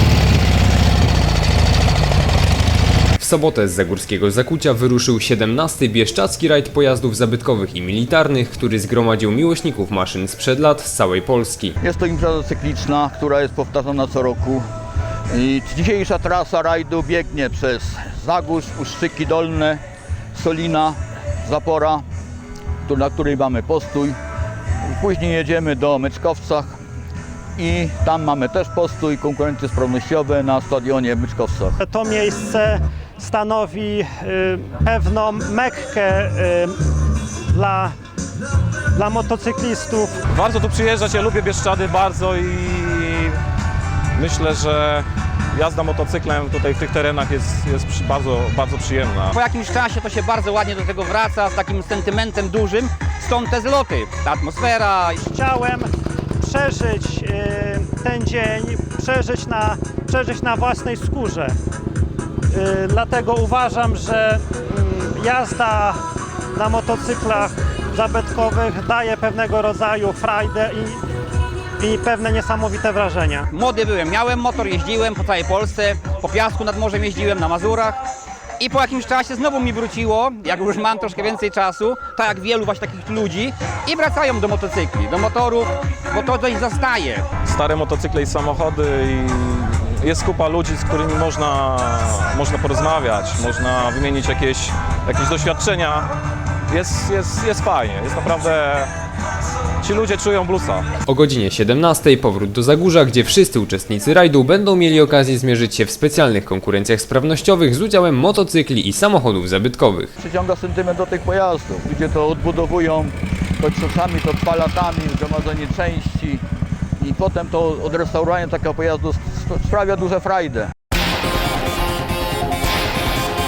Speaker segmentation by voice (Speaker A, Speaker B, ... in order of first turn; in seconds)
Speaker A: 3.2-11.7, 101.0-110.1
Speaker B: 11.8-14.6, 15.3-19.8, 20.3-22.1, 22.9-24.2, 24.8-26.8, 27.6-31.8, 110.2-116.4, 117.0-120.7
Speaker C: 31.8-36.8, 37.5-37.9, 38.9-40.2, 55.2-61.6, 62.5-71.0, 71.8-73.5
Speaker D: 40.3-43.4, 44.1-49.3, 87.4-96.1, 96.7-98.9, 99.8-100.9
Speaker E: 49.3-55.2, 73.5-78.0, 78.6-87.2